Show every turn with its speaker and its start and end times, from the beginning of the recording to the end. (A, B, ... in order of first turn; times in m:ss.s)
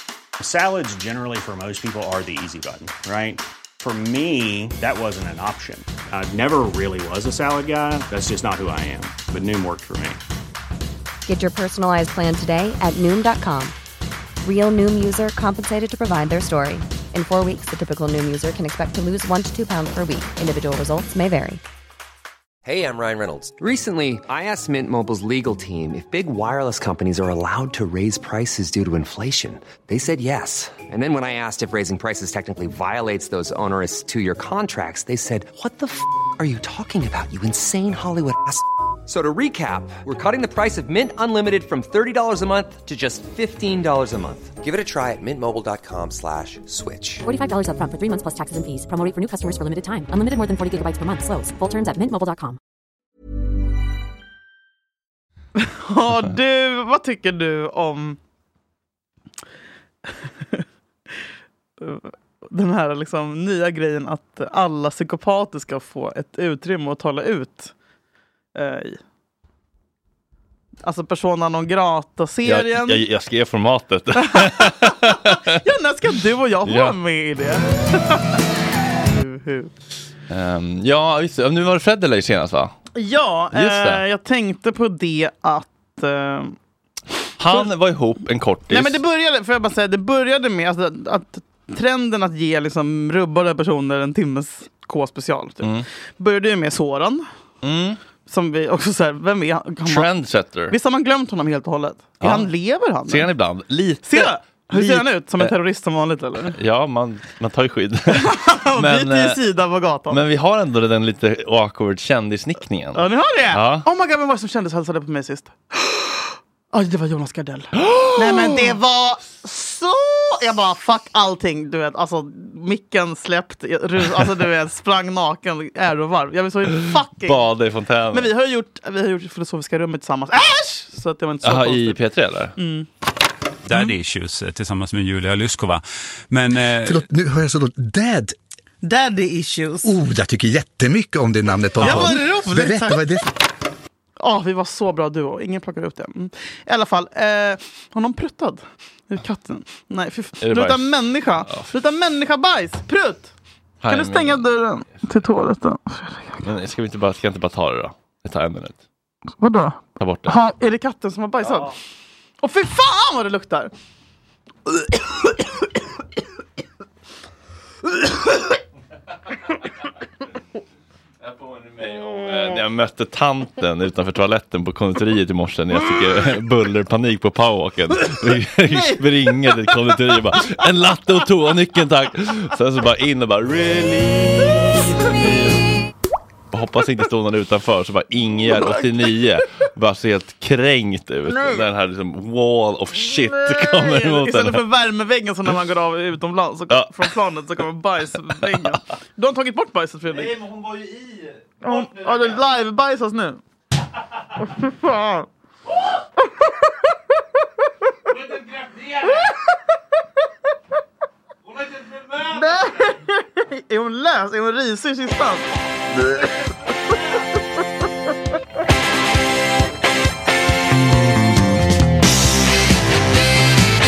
0:00.4-0:10.2 A
0:11.2-0:13.8 B
0:14.4-0:21.6 B
0:22.6-0:47.3 C
0:47.2-0:52.6 D
0:55.6-0:58.2 E
1:00.1-1:00.6 E
1:01.8-1:07.7 E
1:08.5-1:09.0 E
1:10.8-1:13.0 E
1:12.4-1:15.6 F
1:14.2-1:18.4 E
1:16.6-1:17.0 F
1:19.0-1:19.7 E
1:20.3-1:22.7 F
1:22.9-1:26.6 E
1:23.5-1:24.0 F
1:27.4-1:29.0 F
1:28.7-1:37.2 E
1:37.6-1:38.0 F
1:38.3-1:40.0 E
1:39.8-1:40.8 F
1:40.7-1:43.2 E
1:42.2-1:42.5 F
1:43.1-1:45.5 F
1:44.0-1:46.6 E
1:46.5-1:49.4 F
1:48.1-1:50.2 E
1:50.1-1:53.8 F
1:52.9-2:07.4 E
1:57.9-1:58.7 F
2:06.7-2:08.3 F
2:08.1-2:12.0 E
2:11.4-2:12.5 F
2:12.6-2:12.9 E
2:13.6-2:17.0 G
2:16.8-2:18.3 H
2:18.8-2:19.9 E
2:19.8-2:23.3 H
2:21.8-2:23.0 E
2:24.2-2:33.3 E
2:30.4-2:30.9 F
2:33.8-2:34.4 F
2:33.9-2:36.4 E
2:36.4-2:38.8 F
2:39.4-2:41.7 E
2:40.0-2:40.4 F
2:41.4-2:41.7 F
2:42.4-2:43.7 E
2:44.7-2:45.4 E
2:51.2-3:05.6 F
2:58.2-2:59.0 E
3:06.5-3:14.6 F
3:08.4-3:09.2 E
3:11.3-3:11.6 E
3:13.0-3:20.3 E
3:16.7-3:17.1 F
3:20.1-3:22.1 F
3:21.6-3:23.4 E
3:24.4-3:25.3 E
3:29.0-3:29.4 E
3:32.2-3:35.5 E